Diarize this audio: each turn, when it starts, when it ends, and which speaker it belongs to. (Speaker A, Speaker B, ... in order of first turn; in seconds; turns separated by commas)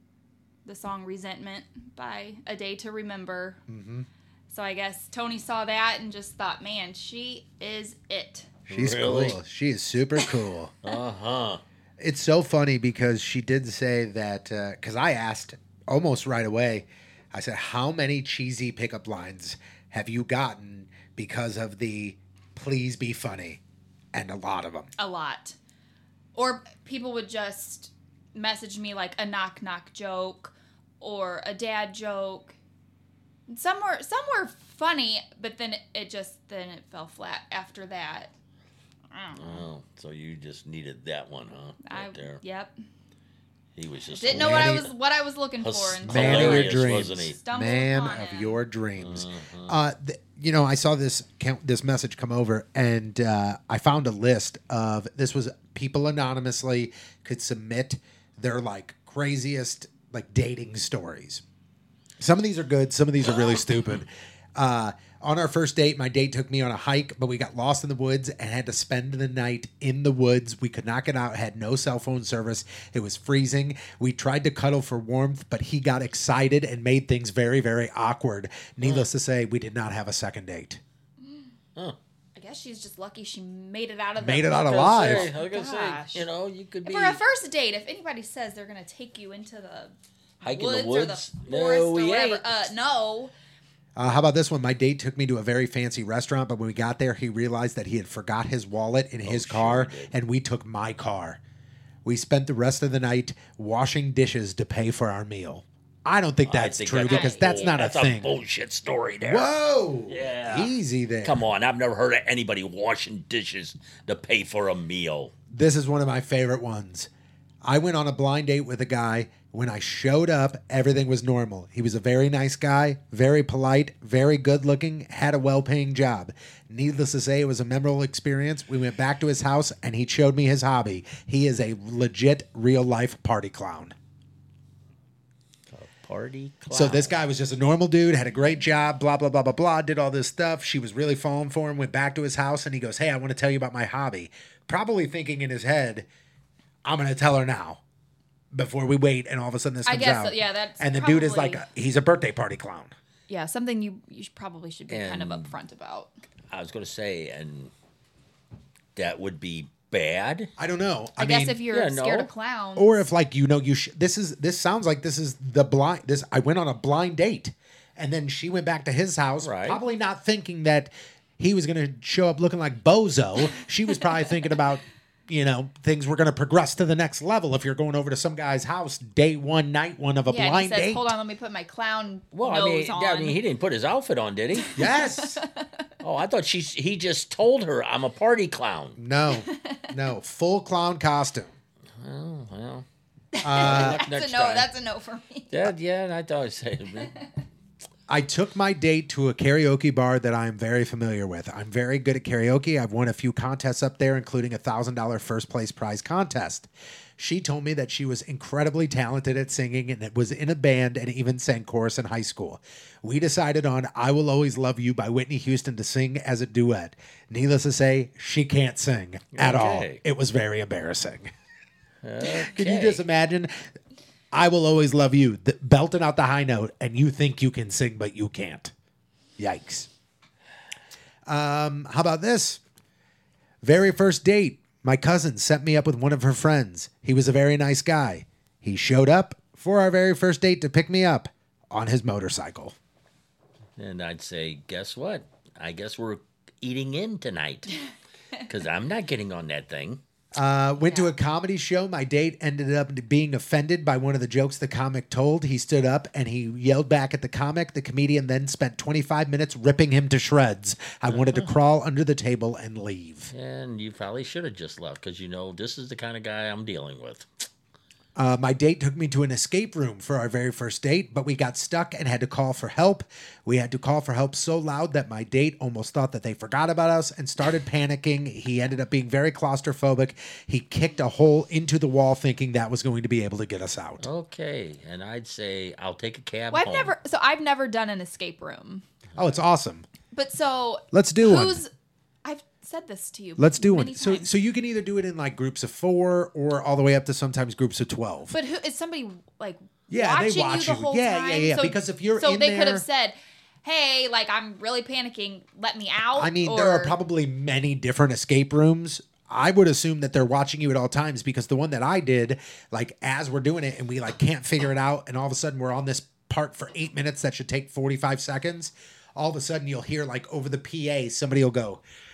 Speaker A: 0.7-3.6, Speaker B: 3.7-4.1, Speaker A: 4.5-8.5, Speaker B: 8.7-10.8, Speaker C: 8.7-9.4, Speaker C: 10.8-11.6, Speaker B: 12.0-23.6, Speaker B: 24.1-24.9, Speaker A: 25.0-25.6, Speaker A: 26.4-32.6, Speaker A: 33.5-38.3, Speaker A: 39.1-39.6, Speaker C: 39.4-42.4, Speaker A: 41.9-42.7, Speaker C: 43.8-44.9, Speaker A: 44.1-48.6, Speaker B: 44.3-44.9, Speaker C: 45.6-47.4, Speaker B: 46.0-61.4, Speaker C: 49.0-49.7, Speaker B: 62.2-80.8, Speaker C: 63.3-64.0, Speaker C: 78.8-79.1, Speaker A: 82.3-86.3, Speaker B: 84.2-85.3, Speaker C: 84.7-87.2, Speaker A: 86.8-93.3, Speaker C: 90.4-92.5, Speaker B: 94.0-101.4, Speaker C: 99.2-100.1, Speaker B: 102.0-108.3, Speaker C: 106.5-109.5, Speaker A: 107.1-107.6, Speaker B: 109.2-111.4, Speaker C: 110.1-110.7, Speaker C: 111.2-115.3, Speaker B: 115.5-117.1, Speaker B: 117.6-133.9, Speaker C: 135.7-137.2, Speaker B: 136.7-146.1, Speaker B: 146.8-147.8, Speaker B: 148.5-152.9, Speaker A: 149.9-151.6, Speaker A: 153.3-156.1, Speaker C: 154.9-155.5, Speaker C: 156.5-157.7, Speaker C: 159.0-160.5, Speaker B: 160.6-161.6, Speaker A: 161.2-163.0, Speaker C: 161.7-162.3, Speaker B: 162.8-181.1, Speaker C: 169.4-169.8, Speaker A: 180.3-183.4, Speaker C: 182.3-184.7, Speaker A: 184.6-185.8, Speaker B: 184.8-185.4, Speaker C: 186.0-189.0, Speaker B: 189.0-191.5, Speaker A: 189.3-189.9, Speaker C: 192.0-192.9, Speaker A: 193.3-195.7, Speaker B: 193.4-194.0, Speaker C: 193.6-194.7, Speaker C: 195.5-197.1, Speaker B: 198.1-221.3, Speaker C: 219.3-220.0, Speaker C: 222.0-223.0, Speaker B: 222.3-223.5, Speaker B: 224.3-228.7, Speaker B: 229.4-229.9, Speaker B: 231.3-232.6, Speaker B: 233.6-242.8, Speaker C: 243.8-247.8, Speaker C: 248.5-250.0, Speaker B: 250.3-263.3, Speaker A: 250.8-251.1, Speaker C: 261.1-261.5, Speaker C: 263.3-267.3, Speaker B: 268.2-284.1, Speaker C: 284.0-286.9, Speaker A: 286.5-288.9, Speaker B: 289.2-289.9, Speaker A: 290.1-291.7, Speaker B: 290.9-291.6, Speaker A: 292.2-294.3, Speaker B: 293.4-298.4, Speaker A: 298.3-306.9, Speaker B: 299.9-302.8, Speaker B: 306.1-321.8